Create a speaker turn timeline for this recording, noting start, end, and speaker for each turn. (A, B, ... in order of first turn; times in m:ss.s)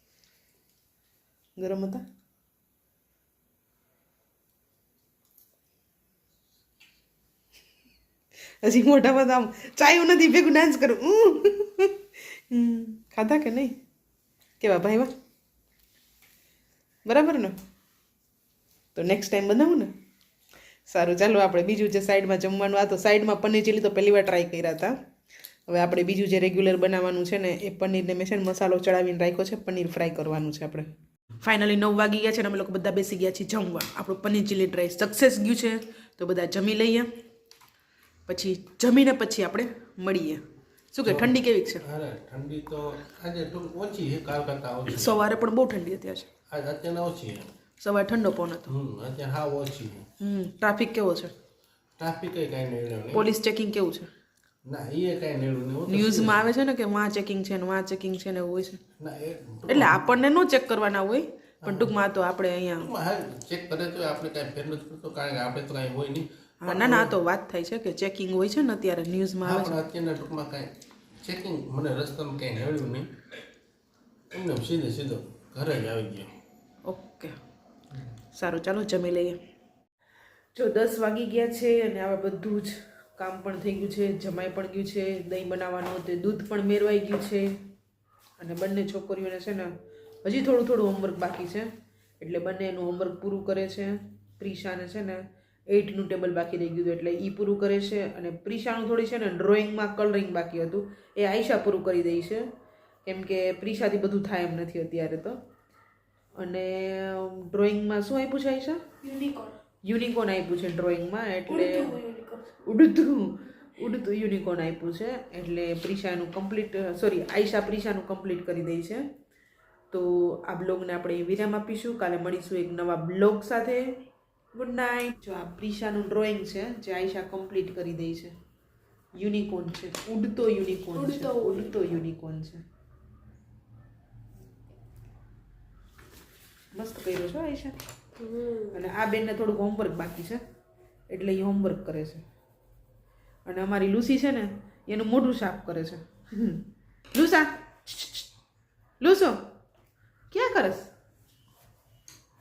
0:01.6-0:02.0 A
0:08.6-0:13.8 A
0:14.6-0:15.1 A
0:17.1-0:17.5 A
0:19.0-0:19.9 A
0:20.9-0:24.9 A
0:25.7-0:30.9 A
0:31.4-0:37.1 A
0:38.3-0:40.4 A
0:40.9-0:41.8 A
0:41.0-0:45.2 B
0:44.9-0:46.3 A
0:46.5-0:47.5 B
0:47.8-0:48.7 A
0:48.7-0:50.1 B
0:50.2-0:51.3 A
0:52.0-0:53.3 B
0:53.1-0:54.1 A
0:54.6-0:56.5 B
0:55.9-0:58.8 A
0:59.0-1:00.1 B
0:59.7-1:02.9 A
1:01.6-1:01.9 B
1:02.8-1:07.2 B
1:06.6-1:09.8 A
1:09.4-1:10.7 B
1:11.2-1:13.1 B
1:14.3-1:16.3 B
1:16.8-1:17.4 A
1:18.3-1:19.4 A
1:20.6-1:27.6 A
1:28.4-1:29.7 A
1:30.2-1:42.5 A
1:43.1-1:45.4 A
1:46.4-1:48.8 A
1:49.0-1:49.6 C
1:49.9-1:51.9 A
1:51.5-1:52.5 C
1:52.6-1:59.0 A
1:59.9-2:04.0 A
2:04.5-2:08.3 A
2:09.2-2:12.6 A
2:11.0-2:11.7 C
2:16.7-2:17.7 A
2:18.2-2:18.8 C
2:18.7-2:20.4 A
2:21.1-2:22.2 A
2:23.5-2:28.2 A
2:29.0-2:29.4 A
2:30.3-2:30.9 A